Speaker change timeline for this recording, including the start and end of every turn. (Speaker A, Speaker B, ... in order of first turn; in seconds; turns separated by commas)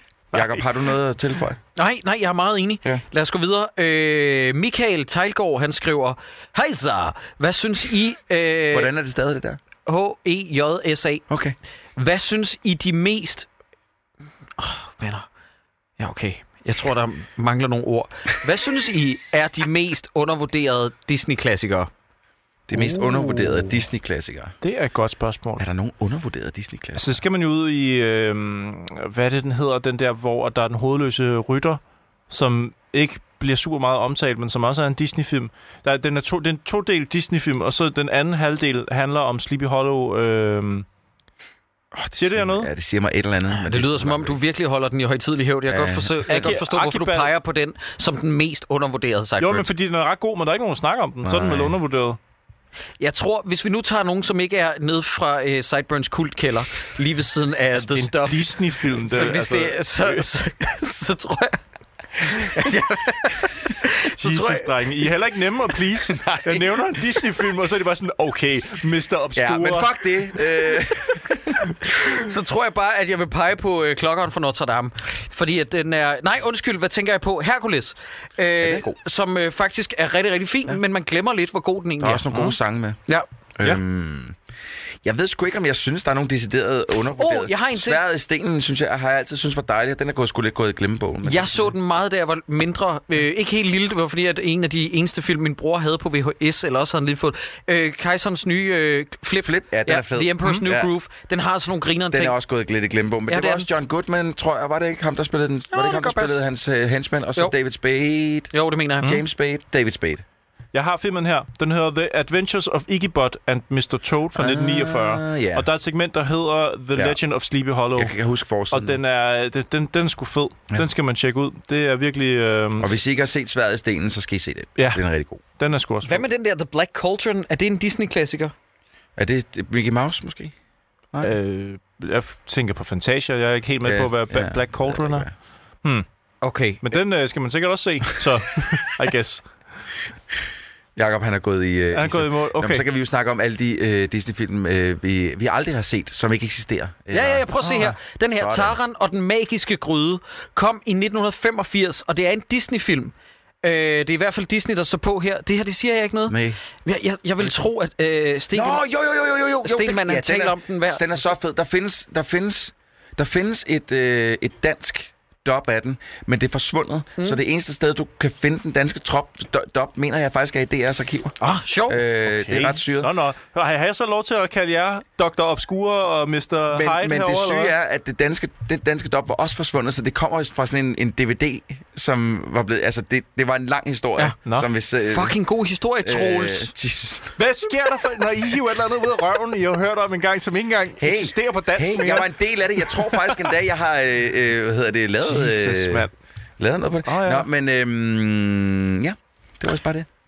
Speaker A: 0.3-0.6, Speaker B: 0.3-1.6, Speaker C: 1.8-8.9, Speaker B: 8.7-9.6, Speaker C: 9.8-11.2, Speaker B: 11.3-11.5, Speaker C: 11.9-13.5, Speaker C: 14.6-15.3, Speaker C: 16.0-21.9, Speaker B: 22.7-24.5, Speaker A: 22.7-23.8, Speaker A: 24.6-25.6, Speaker B: 25.6-27.2, Speaker A: 26.9-40.9, Speaker B: 41.9-44.4, Speaker A: 42.1-42.7, Speaker C: 43.5-49.7, Speaker B: 45.7-46.3, Speaker A: 46.3-47.3, Speaker A: 49.4-52.2, Speaker B: 51.2-51.8, Speaker C: 53.0-61.6, Speaker A: 57.8-60.3, Speaker C: 62.2-64.8, Speaker A: 64.0-70.0, Speaker B: 66.0-67.0, Speaker B: 69.3-71.7, Speaker C: 72.0-82.3, Speaker B: 78.6-79.0, Speaker B: 82.0-83.0, Speaker B: 83.5-84.4, Speaker B: 85.0-91.8, Speaker C: 87.1-88.0, Speaker C: 91.2-102.3, Speaker B: 99.4-100.9, Speaker B: 102.1-110.2, Speaker C: 103.3-103.7, Speaker C: 105.7-106.4, Speaker C: 108.5-109.2, Speaker A: 110.7-118.2, Speaker B: 114.3-115.7, Speaker B: 117.9-119.0, Speaker A: 118.7-122.9, Speaker B: 122.8-125.4, Speaker A: 124.8-125.0, Speaker A: 125.5-126.2, Speaker C: 126.0-128.5, Speaker B: 129.2-130.5, Speaker A: 131.2-135.3, Speaker B: 133.8-135.3, Speaker C: 136.4-137.0, Speaker A: 136.8-139.5, Speaker B: 140.9-148.8, Speaker A: 141.9-142.8, Speaker C: 147.1-158.8, Speaker B: 156.3-156.6, Speaker B: 158.5-171.3, Speaker C: 159.6-161.2, Speaker C: 171.4-172.0, Speaker B: 171.9-173.1, Speaker A: 172.3-177.7, Speaker B: 176.7-185.3, Speaker C: 185.0-186.7, Speaker B: 186.0-187.4, Speaker A: 187.4-193.5, Speaker B: 191.0-196.1, Speaker A: 195.2-196.1, Speaker B: 196.6-200.1, Speaker A: 197.1-197.4